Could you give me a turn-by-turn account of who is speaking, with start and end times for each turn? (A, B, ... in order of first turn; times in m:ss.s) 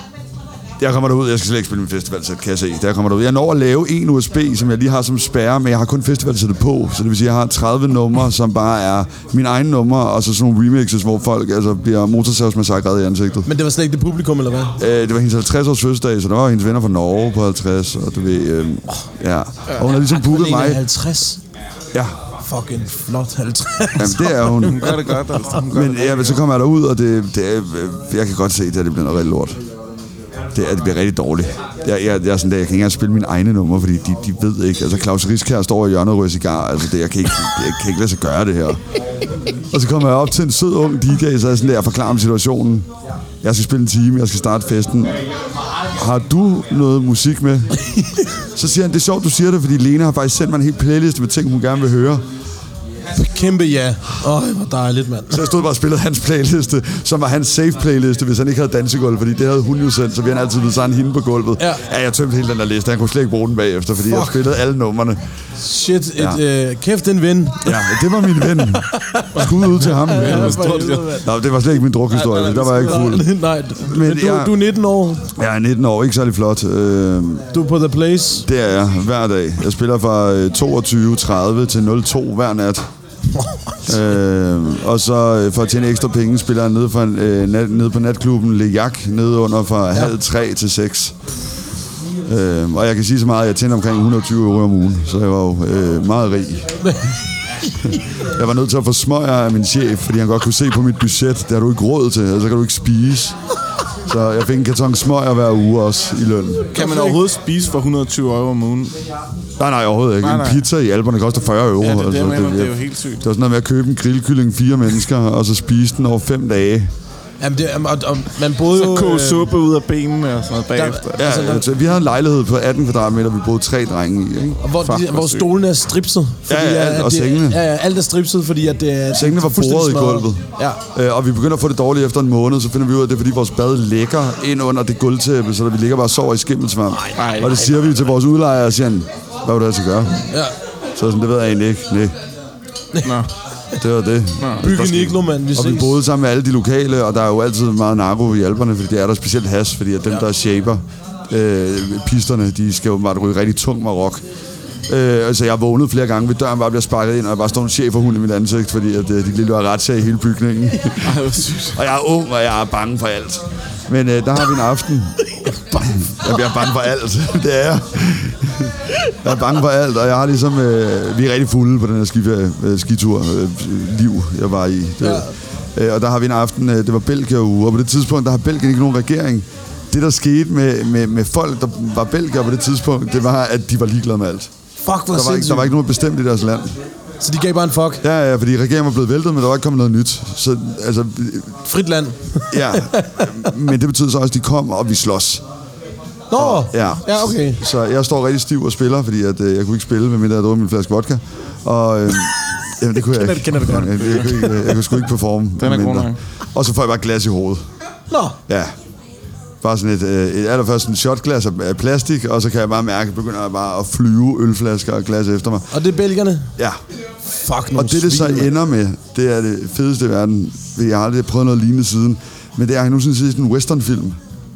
0:00.8-0:13.5 A
0:13.5-0:14.8 B
0:14.8-0:20.8 A
0:20.0-0:21.4 B
0:22.4-0:25.2 B
0:24.0-0:25.0 A
0:24.6-0:26.4 C
0:25.7-0:29.6 A
0:30.5-0:38.8 A
0:39.7-0:42.9 A
0:43.4-0:45.2 A
0:45.9-0:47.7 A
0:47.9-0:48.2 B
0:48.6-0:52.2 A
0:53.1-0:55.5 B
0:55.3-1:05.2 A
1:04.0-1:04.4 B
1:05.6-1:11.3 B
1:07.6-1:14.6 A
1:09.4-1:11.2 C
1:12.1-1:13.2 C
1:12.7-1:15.3 B
1:15.4-1:17.5 A
1:17.5-1:18.5 B
1:18.4-1:22.9 A
1:23.3-1:23.9 B
1:23.9-1:31.2 A
1:32.3-1:36.8 A
1:36.8-1:37.1 B
1:37.8-1:43.4 A
1:44.1-1:46.7 A
1:46.7-1:47.2 B
1:46.7-1:48.9 C
1:49.6-1:56.9 A
1:50.2-1:50.6 C
1:51.8-1:53.2 C
1:57.4-1:59.5 B
1:58.7-2:01.2 C
2:00.8-2:01.7 B
2:01.2-2:04.6 A
2:04.6-2:10.8 B
2:04.8-2:05.5 C
2:06.5-2:07.6 A
2:09.1-2:10.4 A
2:10.9-2:20.3 A
2:17.2-2:17.6 C
2:21.0-2:22.2 A
2:23.0-2:23.3 C
2:23.8-2:34.2 A
2:24.4-2:24.6 C
2:24.6-2:26.0 B
2:34.9-2:41.2 A
2:41.0-2:41.8 C
2:41.7-3:04.5 A
2:45.4-2:46.0 B
2:55.0-2:55.3 B
3:04.8-3:05.8 B
3:05.1-3:06.8 A
3:07.2-3:08.0 B
3:08.0-3:11.6 A
3:11.7-3:13.5 B
3:12.5-3:15.4 A
3:16.3-3:17.6 B
3:16.4-3:27.6 A
3:23.0-3:24.8 B
3:25.6-3:26.2 C
3:28.1-3:28.4 B
3:28.5-3:28.7 A
3:29.6-3:35.7 A
3:35.7-3:36.5 B
3:37.3-3:38.5 B
3:37.7-3:44.2 A